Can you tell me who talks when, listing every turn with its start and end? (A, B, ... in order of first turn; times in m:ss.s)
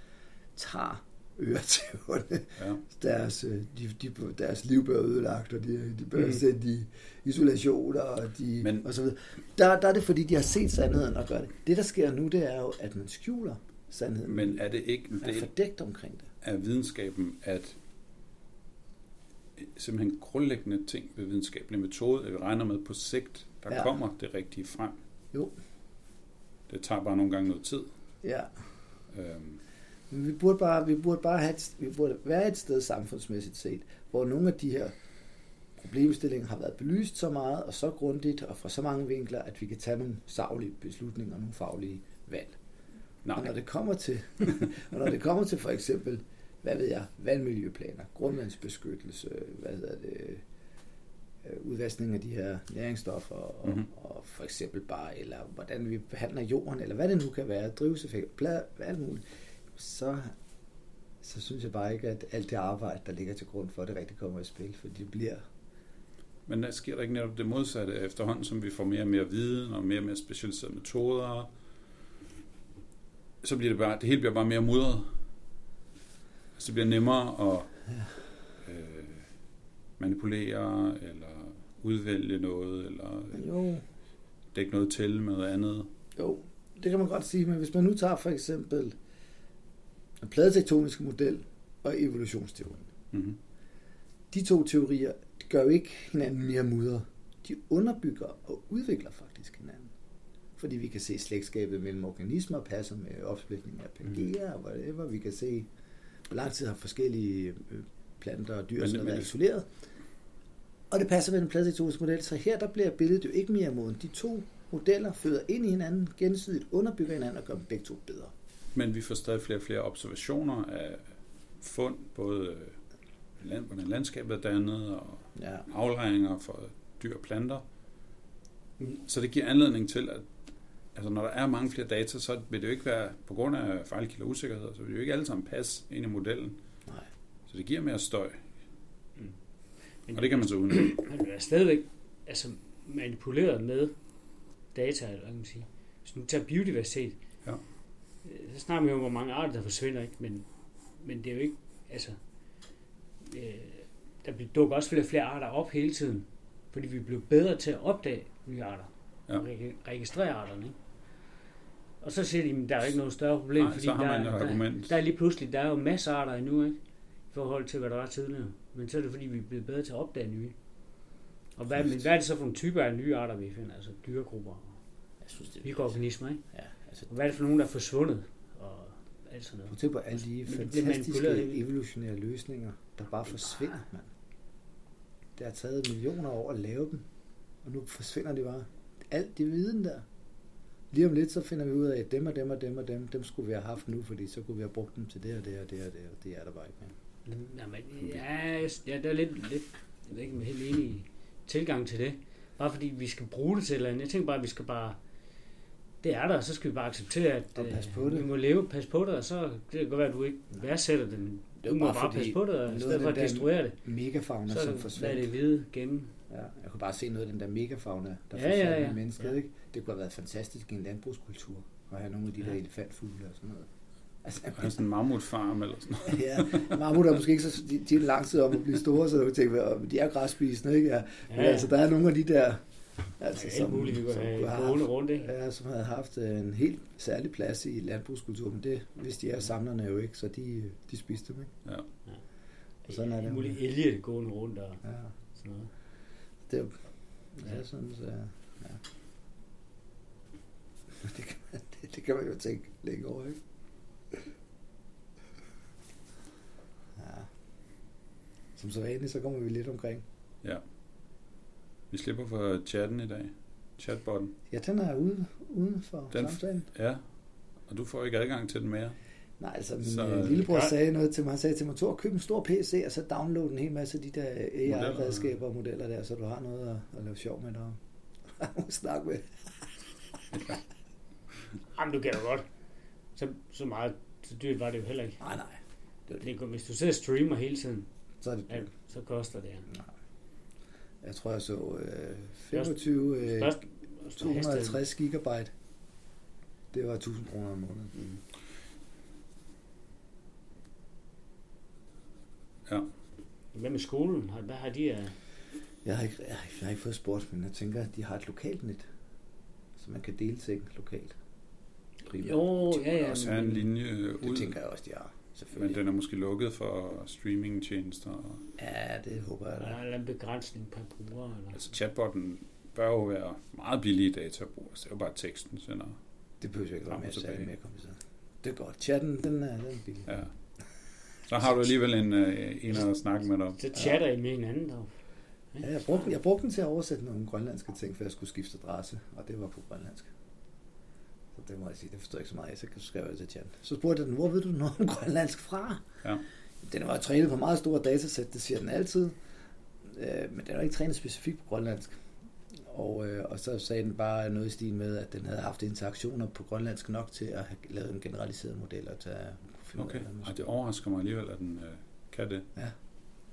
0:00.5-0:14.6 A
0:08.6-0:08.8 B
0:14.2-0:15.5 B
0:15.2-0:16.3 A
0:16.4-0:17.8 B
0:19.6-0:25.0 B
0:26.7-0:27.9 B
0:28.2-0:28.5 A
0:29.1-0:29.6 B
0:30.1-0:34.9 A
0:35.8-0:42.6 A
0:43.2-0:43.5 B
0:43.3-0:50.4 A
0:51.4-1:00.3 A
1:01.2-1:05.4 A
1:06.5-1:11.5 B
1:13.4-1:15.1 B
1:16.6-1:17.7 B
1:18.6-1:19.3 B
1:20.0-1:23.4 B
1:23.3-1:23.8 A
1:24.5-1:25.9 B
1:26.2-1:29.0 A
1:30.2-1:32.9 A
1:33.1-1:33.4 B
1:34.3-1:39.9 A
1:40.6-1:45.7 A
1:46.3-1:49.6 A
1:48.8-1:49.3 B
1:50.9-1:58.3 A
1:58.7-2:01.1 B
2:01.6-2:02.8 B
2:03.4-2:07.6 B
2:05.4-2:05.6 A
2:08.9-2:10.3 B
2:10.9-2:16.6 B
2:17.5-2:18.4 B
2:20.0-2:23.9 C
2:20.1-2:21.0 B
2:24.7-2:27.2 C
2:28.2-2:30.4 C
2:31.0-2:32.2 C
2:33.2-2:40.8 C
2:42.0-2:46.8 C
2:43.6-2:44.9 B
2:47.3-2:50.5 C
2:51.6-2:54.8 C
2:55.2-2:55.7 A
2:55.6-2:56.4 C
2:56.5-2:57.0 A
2:57.1-2:59.8 C
2:59.7-3:04.1 A
3:00.4-3:01.6 C
3:05.4-3:07.0 A
3:07.6-3:10.0 A
3:10.9-3:16.9 A
3:17.2-3:25.0 C
3:26.0-3:33.8 C
3:27.6-3:28.3 A
3:31.6-3:35.3 A
3:34.5-3:36.1 C
3:36.3-3:43.7 A
3:38.3-3:39.1 C
3:44.2-3:44.8 A
3:44.6-3:46.8 B
3:46.0-3:52.6 A
3:51.3-3:51.7 C
3:53.2-4:01.5 A
3:53.4-3:55.3 C
4:02.9-4:03.6 A
4:02.9-4:04.8 C
4:04.8-4:05.1 A
4:05.4-4:05.7 C
4:06.5-4:06.7 A
4:07.3-4:08.8 A
4:10.9-4:13.4 A
4:17.0-4:17.3 A
4:18.6-4:20.0 A
4:21.9-4:24.3 B
4:24.5-4:26.7 A
4:26.1-4:27.0 B
4:27.7-4:29.0 B
4:29.4-4:37.8 A
4:29.8-4:30.4 B
4:34.7-4:35.3 B
4:38.4-4:39.3 A
4:41.7-4:42.4 C
4:43.2-4:45.2 C
4:45.2-4:45.6 A
4:46.2-4:47.9 C
4:48.2-4:48.6 A
4:48.5-4:49.7 C
4:51.0-4:53.6 A
4:52.5-4:54.8 C
4:54.2-4:55.5 A
4:56.7-4:58.1 A
5:03.5-5:05.1 C
5:05.8-5:08.8 A
5:09.8-5:11.1 A
5:12.1-5:13.7 C
5:12.8-5:14.5 B
5:14.2-5:15.8 A
5:15.5-5:18.4 B
5:18.6-5:19.8 A
5:19.6-5:21.6 C
5:21.5-5:26.0 B
5:26.4-5:30.1 A
5:26.9-5:27.5 B
5:31.3-5:33.6 B
5:33.6-5:34.9 C
5:35.6-5:40.1 A
5:41.3-5:45.8 A
5:46.6-5:49.1 A
5:49.8-5:52.0 A
5:52.7-6:00.5 A
5:59.8-6:02.4 B